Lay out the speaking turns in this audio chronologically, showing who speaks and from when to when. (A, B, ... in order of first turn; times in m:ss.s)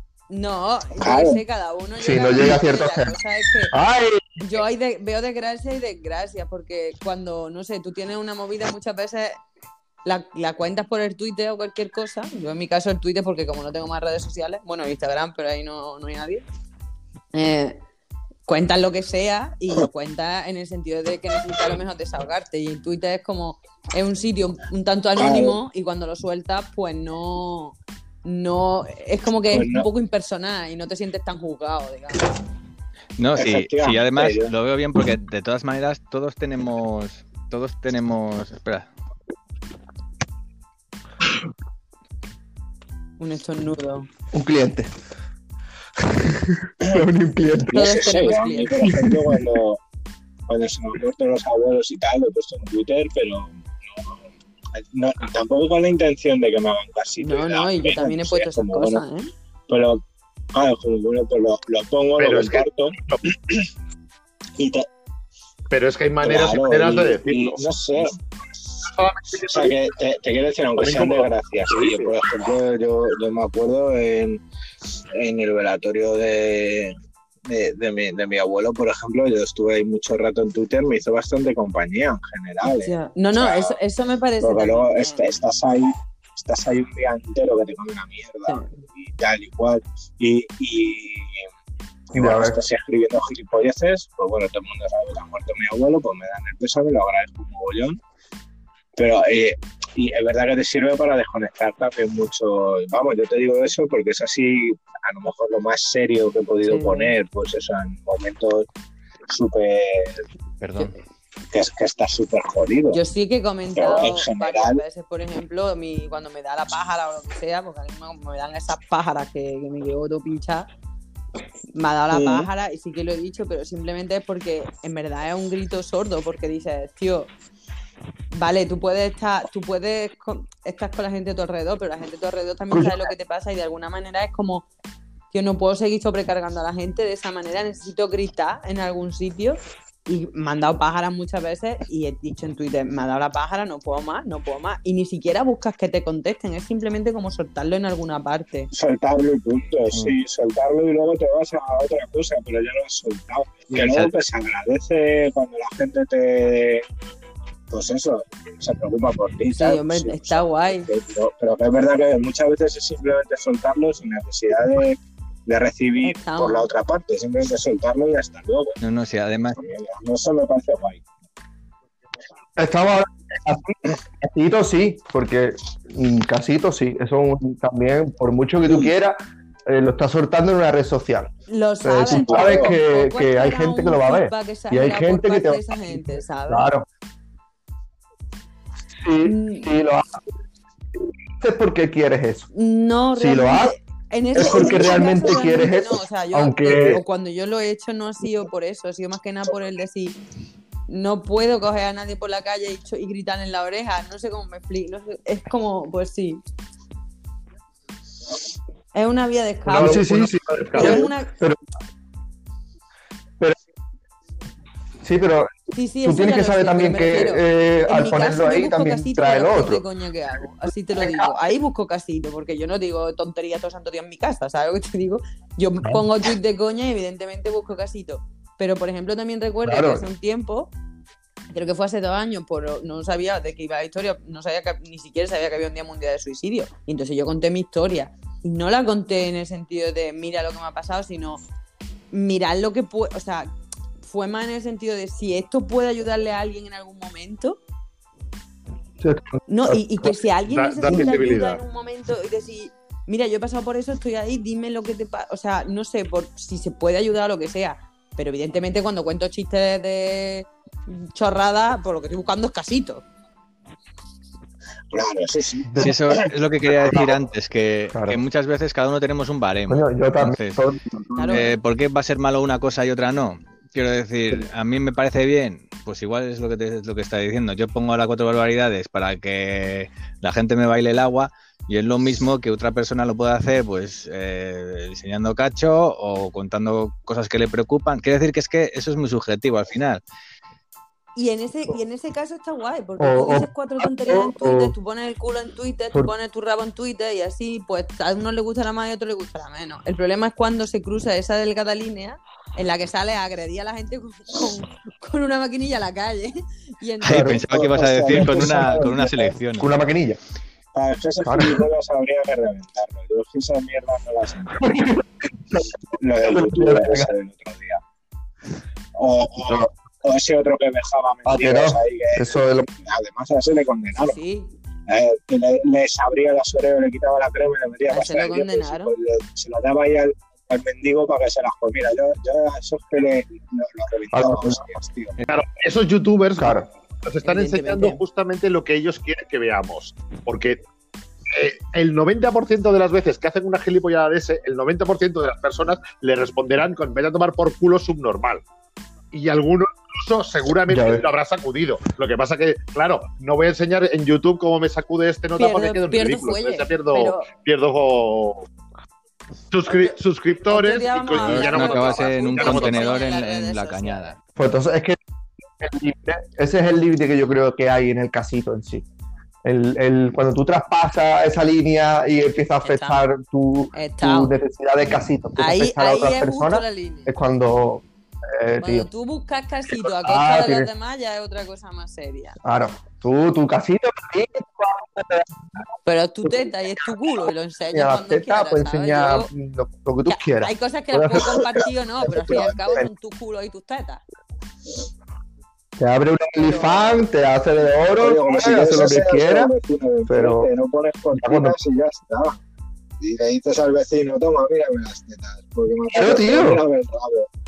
0:00.3-0:03.7 A
0:01.0-0:01.4 B
0:02.0-0:03.1 C
0:03.7-0:04.4 C
0:04.4-0:09.4 A
0:10.0-0:16.4 A
0:17.3-0:17.8 A
0:18.4-0:32.3 A
0:25.2-0:25.6 B
0:29.5-0:29.9 B
0:33.2-0:38.9 D
0:33.4-0:34.5 B
0:43.2-0:44.1 A
0:44.3-0:44.9 C
0:46.1-0:48.1 C
0:47.7-0:48.8 A
0:47.8-0:49.8 B
0:48.8-0:49.4 C
0:50.5-0:54.2 B
0:54.8-0:59.0 B
0:57.2-0:59.3 A
0:59.7-1:00.0 B
1:00.5-1:03.7 B
1:02.2-1:03.2 E
1:04.6-1:04.8 B
1:05.7-1:08.1 E
1:06.2-1:08.2 B
1:08.9-1:09.8 E
1:09.4-1:14.4 B
1:10.8-1:12.2 E
1:15.1-1:16.9 B
1:17.5-1:23.8 B
1:22.8-1:25.2 A
1:24.4-1:31.5 B
1:28.5-1:28.8 A
1:32.1-1:32.6 C
1:32.1-1:38.0 B
1:39.0-1:48.7 B
1:46.7-1:47.1 A
1:49.3-1:50.2 B
1:50.6-1:51.0 D
1:51.5-1:53.0 B
1:52.9-2:00.7 A
1:53.8-1:54.8 B
2:01.8-2:07.3 A
2:02.1-2:02.5 B
2:08.3-2:14.7 A
2:12.7-2:13.1 C
2:15.3-2:28.7 A
2:28.7-2:36.8 B
2:29.9-2:30.2 D
2:33.7-2:34.1 D
2:37.7-2:48.8 B
2:39.5-2:40.9 A
2:46.0-2:46.6 A
2:48.8-2:49.6 D
2:49.5-2:51.0 B
2:52.6-2:59.2 C
2:59.7-3:01.3 C
3:01.5-3:06.7 A
3:01.8-3:06.9 C
3:02.1-3:02.8 B
3:09.0-3:10.2 C
3:09.2-3:09.7 A
3:11.4-3:12.5 C
3:12.5-3:20.2 A
3:13.1-3:13.8 C
3:14.3-3:17.0 C
3:20.9-3:26.4 A
3:28.9-3:30.1 A
3:29.6-3:31.6 C
3:29.8-3:30.9 E
3:30.7-3:31.3 A
3:30.8-3:31.1 B
3:35.0-3:35.5 C
3:35.7-3:50.7 A
3:36.0-3:39.9 C
3:40.9-3:41.3 C
3:49.6-3:50.1 C
3:51.5-4:01.4 A
4:02.1-4:03.5 A
4:04.0-4:07.6 A
4:09.0-4:10.1 C
4:09.5-4:23.0 A
4:10.5-4:11.6 E
4:10.9-4:11.2 C
4:24.9-4:26.2 B
4:25.8-4:30.6 D
4:26.8-4:27.0 B
4:26.9-4:27.1 C
4:27.9-4:28.2 C
4:29.7-4:31.5 C
4:31.2-4:31.5 A
4:31.3-4:50.0 D
4:51.1-5:07.3 A
4:53.0-4:54.7 C
5:07.0-5:09.7 D
5:07.0-5:07.4 C
5:07.5-5:09.4 B
5:08.0-5:08.8 C
5:09.6-5:10.2 C
5:10.7-5:14.8 B
5:11.2-5:11.6 C
5:14.6-5:15.0 C
5:16.0-5:17.8 B
5:16.3-5:17.1 C
5:19.0-5:24.2 B
5:21.2-5:22.7 C
5:24.0-5:24.5 A
5:24.9-5:35.1 B
5:27.9-5:28.9 A
5:34.1-5:34.6 C
5:35.3-5:40.6 E
5:36.4-5:36.7 C
5:37.2-5:38.0 A
5:41.3-5:48.4 E
5:49.1-5:58.5 E
5:50.7-5:51.0 C
5:55.4-5:57.3 A
5:59.5-6:03.0 E
6:00.5-6:04.1 A
6:01.1-6:04.2 D
6:04.4-6:05.0 C
6:05.6-6:08.8 C
6:09.4-6:17.8 C
6:12.6-6:13.0 A
6:13.7-6:14.3 A
6:15.4-6:17.1 A
6:18.4-6:18.9 C
6:18.6-6:22.4 A
6:19.8-6:20.7 C
6:22.4-6:25.4 C
6:25.8-6:29.3 A
6:26.2-6:27.2 C
6:27.7-6:32.9 C
6:30.1-6:34.0 A
6:32.3-6:32.8 B
6:35.8-6:39.5 C
6:36.3-6:37.0 A
6:38.0-6:42.4 B
6:40.1-6:40.5 C
6:41.1-6:41.6 C
6:43.0-6:47.3 B
6:45.9-6:46.6 C